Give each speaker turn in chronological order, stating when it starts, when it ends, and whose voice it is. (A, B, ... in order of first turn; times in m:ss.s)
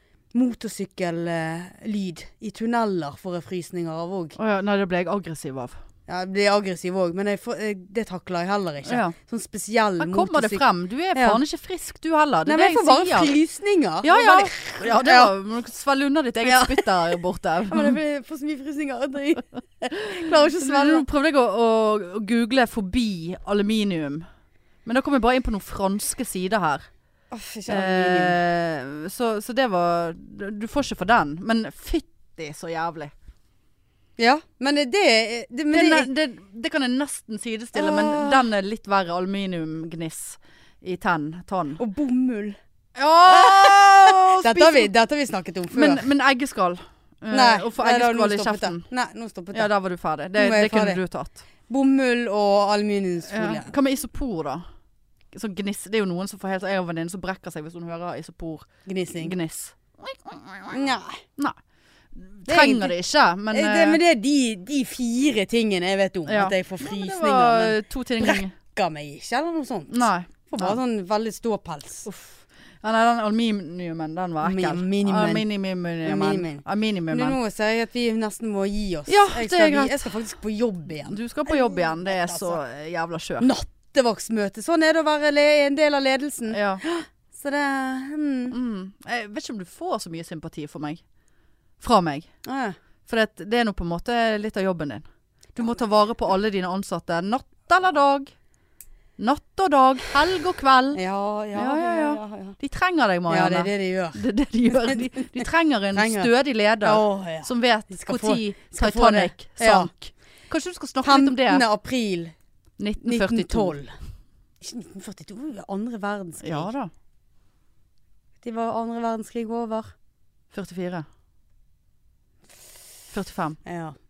0:00.3-0:04.4 A
0:04.4-0:05.8 B
0:06.1-0:11.4 A
0:08.8-0:09.2 B
0:10.0-0:13.3 B
0:12.5-0:15.3 A
0:14.0-0:18.0 B
0:16.4-0:16.9 A
0:17.7-0:21.1 A
0:20.0-0:24.3 B
0:24.8-0:26.9 B
0:27.3-0:28.4 A
0:27.7-0:33.1 B
0:34.2-0:36.1 A
0:35.7-0:41.8 B
0:37.8-0:38.4 A
0:41.8-0:42.6 A
0:43.0-0:44.9 B
0:43.2-0:46.1 A
0:45.7-0:48.9 B
0:47.3-0:49.7 A
0:49.5-0:51.4 B
0:50.4-0:51.0 A
0:51.7-0:53.7 A
0:53.3-0:54.6 B
0:55.3-1:00.8 B
0:58.9-0:59.4 A
1:00.7-1:01.2 A
1:02.2-1:04.0 B
1:02.5-1:03.0 A
1:03.5-1:12.1 A
1:06.3-1:08.5 B
1:09.9-1:10.8 B
1:12.1-1:17.4 B
1:14.4-1:15.5 A
1:16.0-1:22.6 A
1:19.1-1:20.1 B
1:20.9-1:23.5 B
1:23.4-1:28.6 A
1:26.5-1:26.8 B
1:28.5-1:31.0 B
1:31.8-1:32.3 B
1:32.4-1:32.8 A
1:33.1-1:38.3 B
1:39.2-1:41.0 B
1:40.9-1:42.6 A
1:41.6-1:51.6 B
1:43.3-1:44.2 A
1:44.7-1:46.3 A
1:46.8-1:49.9 A
1:51.0-1:52.3 A
1:52.8-1:53.8 B
1:53.0-1:53.9 A
1:54.6-1:56.7 A
1:56.4-1:56.9 B
1:58.4-1:59.9 A
2:00.5-2:01.1 B
2:03.1-2:03.6 B
2:03.6-2:04.0 A